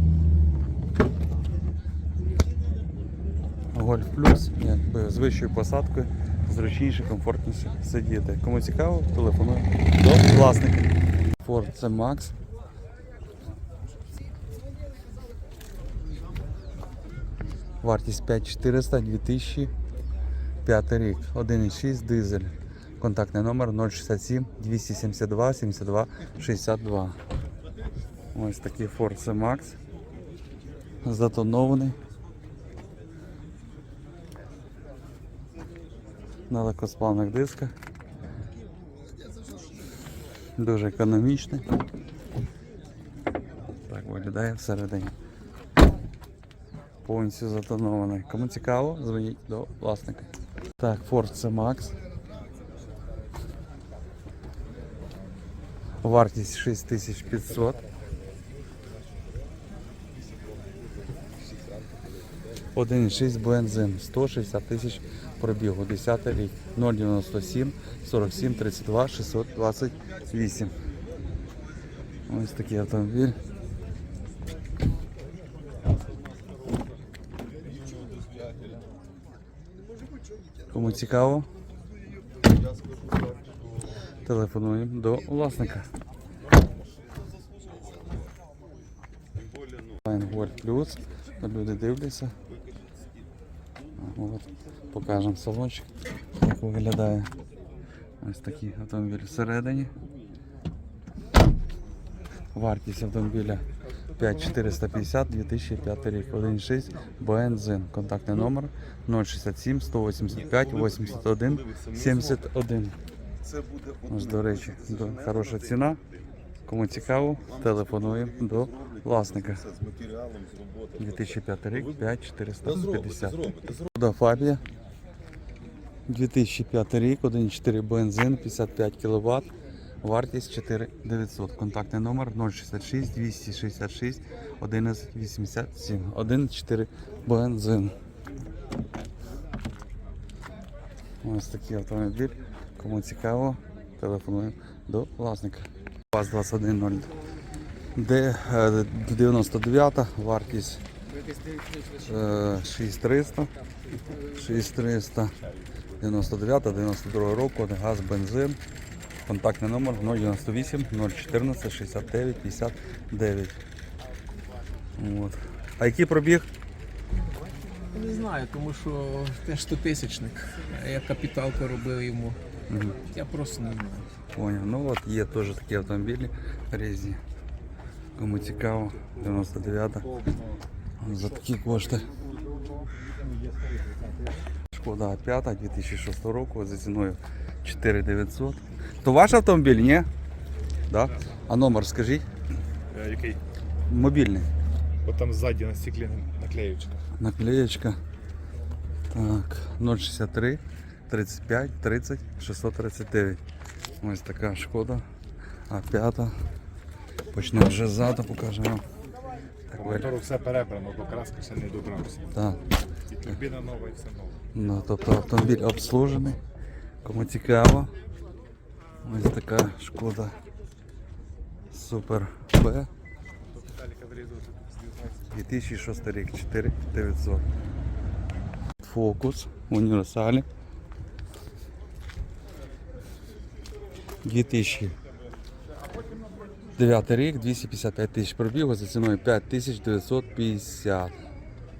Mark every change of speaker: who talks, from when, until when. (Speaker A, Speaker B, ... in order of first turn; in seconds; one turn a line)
Speaker A: 3.7-10.9
Speaker A: 11.4-12.3
Speaker A: 17.8-19.7
Speaker A: 20.6-27.1
Speaker A: 28.3-29.8
Speaker A: 31.0-32.0
Speaker A: 36.5-37.7
Speaker A: 40.6-41.6
Speaker A: 43.9-45.1
Speaker A: 47.0-52.0
Speaker A: 56.0-57.8
Speaker A: 62.8-70.7
Speaker A: 72.3-73.4
Speaker A: 80.7-81.5
Speaker A: 84.2-85.9
Speaker A: 90.0-92.3
Speaker A: 94.0-95.9
Speaker A: 96.4-97.3
Speaker A: 98.2-99.9
Speaker A: 102.5-103.6
Speaker A: 104.2-113.0
Speaker A: 114.0-116.0
Speaker A: 116.7-119.8
Speaker A: 121.0-124.6
Speaker A: 126.1-129.5
Speaker A: 130.0-137.9
Speaker A: 141.2-147.1
Speaker A: 147.9-150.8
Speaker A: 151.9-153.5
Speaker A: 154.2-155.3
Speaker A: 156.0-158.6
Speaker A: 159.2-163.6
Speaker A: 165.0-166.5
Speaker B: 167.9-172.4
Speaker A: 172.7-173.0
Speaker B: 173.0-174.1
Speaker A: 174.3-177.2
Speaker A: 178.2-180.2
Speaker A: 181.0-182.1
Speaker A: 184.7-190.1
Speaker A: 190.9-192.2
Speaker C: 192.9-193.4
Speaker A: 193.9-194.5
Speaker C: 195.0-197.0
Speaker A: 197.2-198.0
Speaker A: 199.1-203.4
Speaker A: 204.0-205.0
Speaker A: 205.7-206.3
Speaker A: 207.3-208.8
Speaker A: 209.7-210.1
Speaker C: 209.8-212.3
Speaker A: 212.3-212.6
Speaker C: 213.1-214.4
Speaker A: 214.5-216.4
Speaker A: 217.0-217.9
Speaker A: 219.0-220.3
Speaker A: 221.7-222.9
Speaker C: 223.5-225.1
Speaker A: 225.3-227.4
Speaker A: 228.8-230.4
Speaker A: 234.2-234.9
Speaker A: 236.8-241.1